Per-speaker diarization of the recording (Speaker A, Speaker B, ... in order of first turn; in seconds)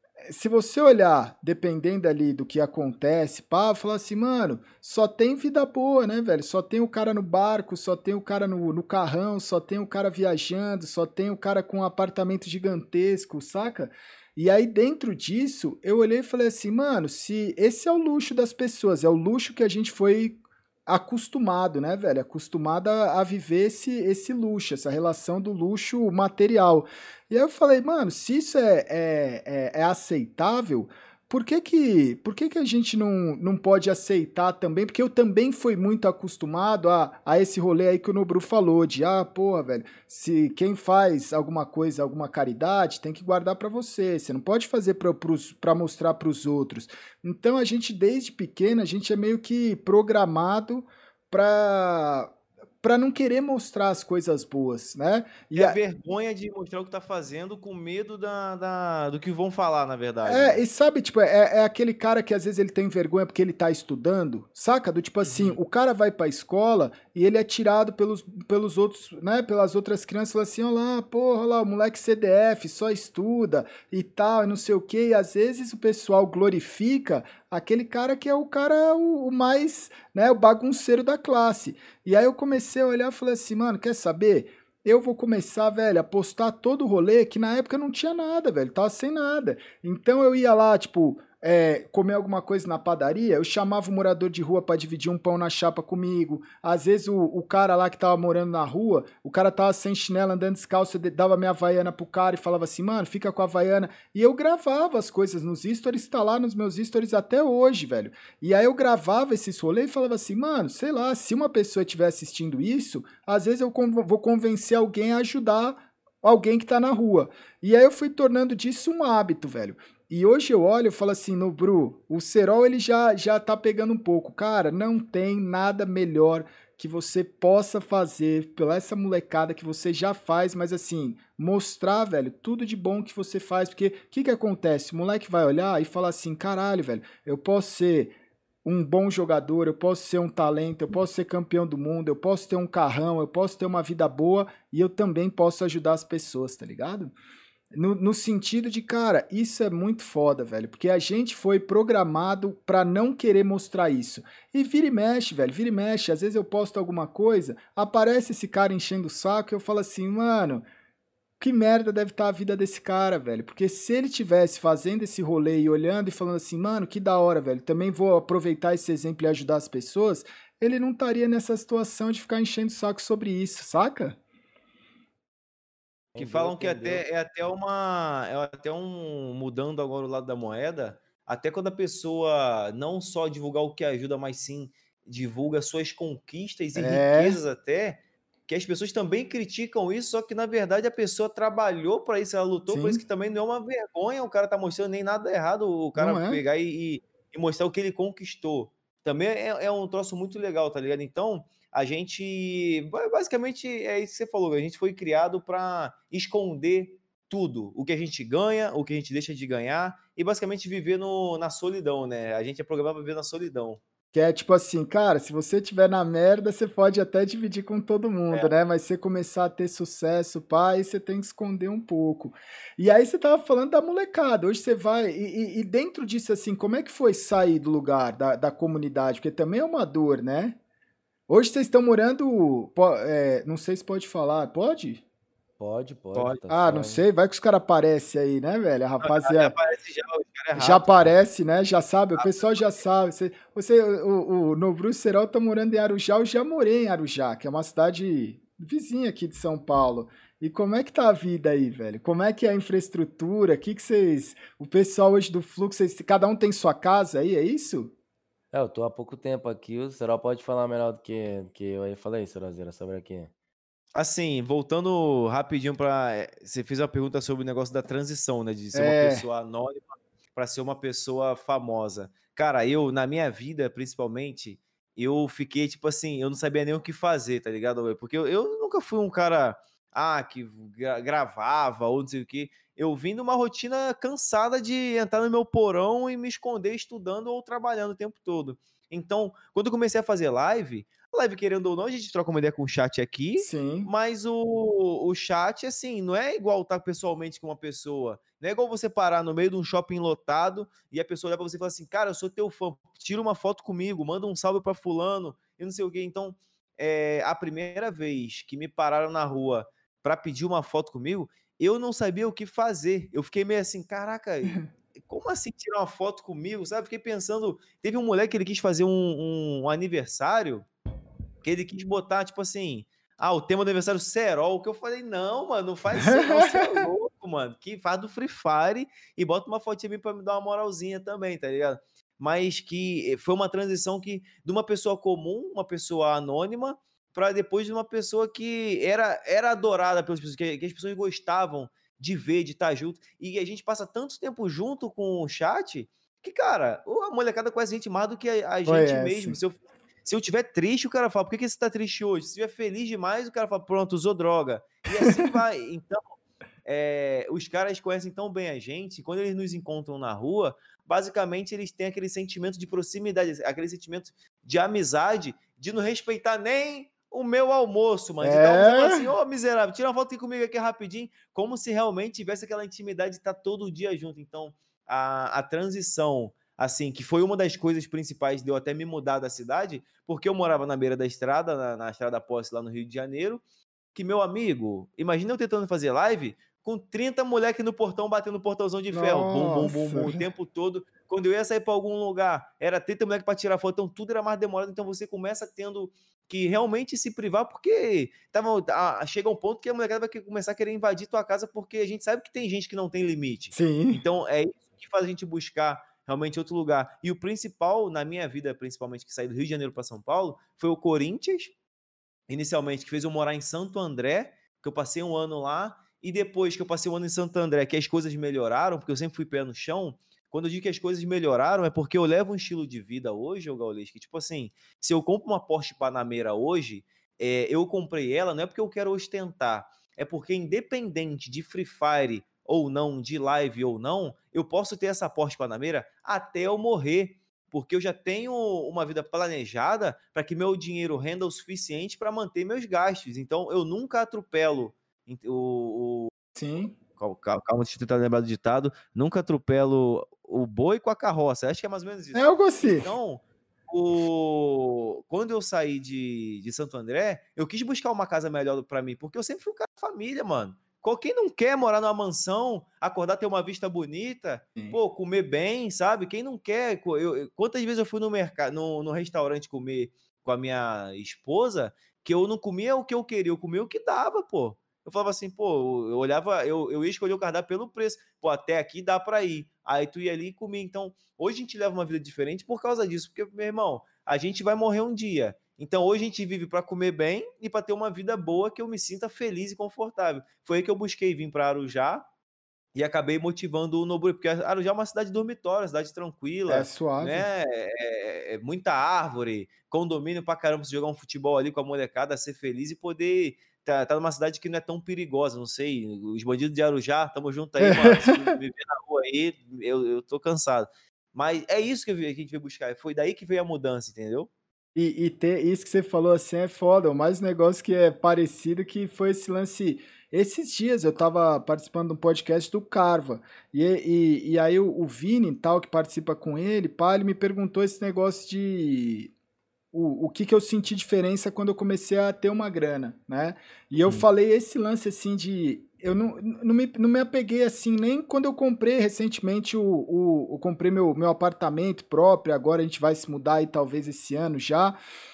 Speaker A: 0.2-52.3, 52.8-55.8, 60.2-138.1, 138.6-147.1, 147.7-160.7, 161.4-174.2, 186.8-187.4, 192.7-193.0, 195.9-196.4, 214.1-230.6, 231.3-235.0, 236.5-239.6, 240.5-257.9, 268.7-269.2, 293.4-293.9, 325.9-326.9, 348.6-349.4, 368.2-369.1, 388.9-390.2, 403.5-404.0, 446.3-446.7, 452.1-452.9, 496.5-497.3, 507.6-508.3, 514.8-529.1, 529.7-544.8
Speaker B: 55.5-60.6, 65.2-65.6, 176.2-213.8, 239.0-241.0, 242.2-242.7, 263.9-320.7, 321.4-383.4, 383.9-411.5, 412.3-446.1, 447.0-492.0, 492.7-514.3
Speaker C: 176.1-177.0, 235.6-237.0, 258.5-263.3